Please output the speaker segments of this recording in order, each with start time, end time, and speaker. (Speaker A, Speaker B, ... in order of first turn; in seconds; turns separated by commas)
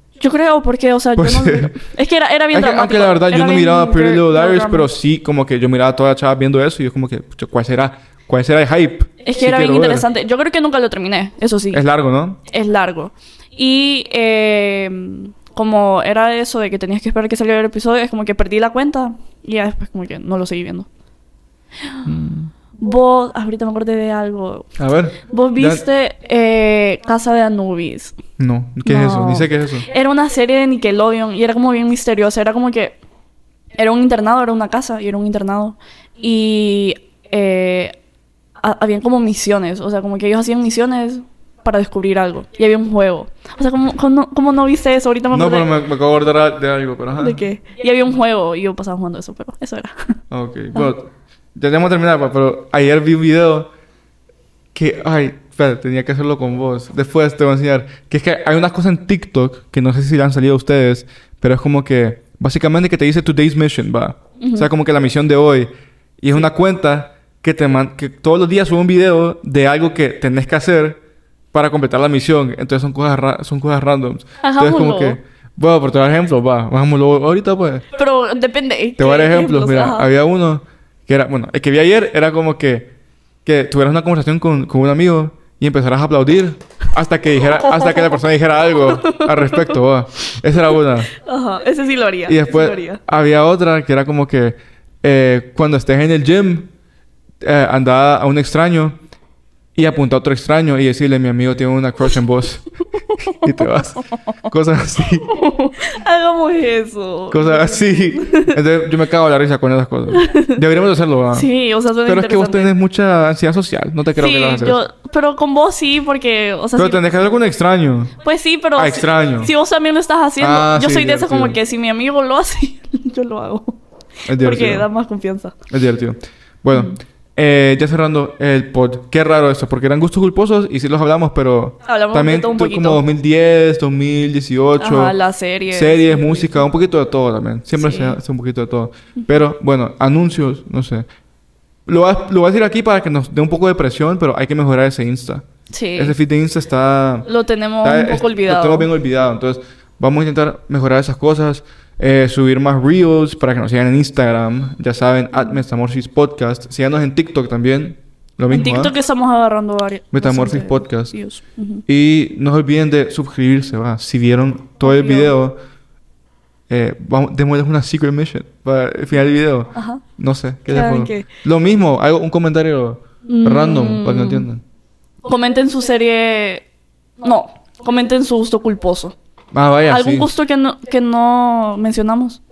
Speaker A: 0.2-4.9, Speaker B: 1.1-1.8, Speaker B: 2.5-10.1, Speaker A: 9.2-11.8, Speaker B: 11.7-12.4, Speaker A: 12.5-20.9, Speaker B: 22.0-22.5, Speaker A: 22.8-24.7, Speaker B: 24.8-25.8, Speaker A: 25.2-28.1, Speaker B: 28.4-29.8, Speaker A: 28.8-33.0, Speaker A: 33.7-38.0, Speaker A: 38.6-45.7, Speaker B: 45.3-47.4, Speaker A: 47.2-50.1, Speaker B: 50.3-53.7, Speaker B: 54.7-71.0, Speaker A: 64.4-64.7, Speaker B: 71.5-77.8, Speaker A: 74.4-75.2, Speaker A: 77.9-80.1, Speaker B: 79.0-82.9, Speaker B: 83.4-91.1, Speaker A: 87.4-88.2, Speaker A: 88.8-89.8, Speaker A: 90.5-93.0, Speaker B: 92.3-96.7, Speaker B: 97.4-99.0, Speaker B: 99.7-102.6, Speaker B: 103.2-105.3, Speaker A: 105.2-108.6, Speaker B: 107.3-111.5, Speaker A: 110.1-110.6, Speaker A: 111.3-112.7, Speaker B: 112.0-114.8, Speaker A: 114.1-117.0, Speaker B: 116.8-118.1, Speaker A: 118.2-123.8, Speaker B: 118.8-119.5, Speaker B: 120.4-121.6, Speaker B: 124.3-124.9, Speaker A: 124.4-125.5, Speaker B: 125.7-135.2, Speaker A: 131.8-133.0, Speaker A: 134.8-136.6, Speaker B: 135.7-141.1, Speaker A: 137.7-138.2, Speaker B: 141.9-145.4, Speaker A: 145.7-146.2, Speaker B: 145.9-147.3, Speaker A: 147.2-148.9, Speaker B: 147.8-158.9, Speaker A: 158.5-161.8, Speaker B: 160.1-161.1, Speaker B: 161.9-165.6, Speaker A: 164.8-165.3, Speaker B: 166.7-174.6, Speaker A: 169.7-170.0, Speaker A: 170.7-171.3, Speaker A: 173.2-174.5, Speaker A: 175.2-176.6, Speaker A: 177.2-179.1, Speaker B: 179.5-180.3, Speaker A: 179.9-182.4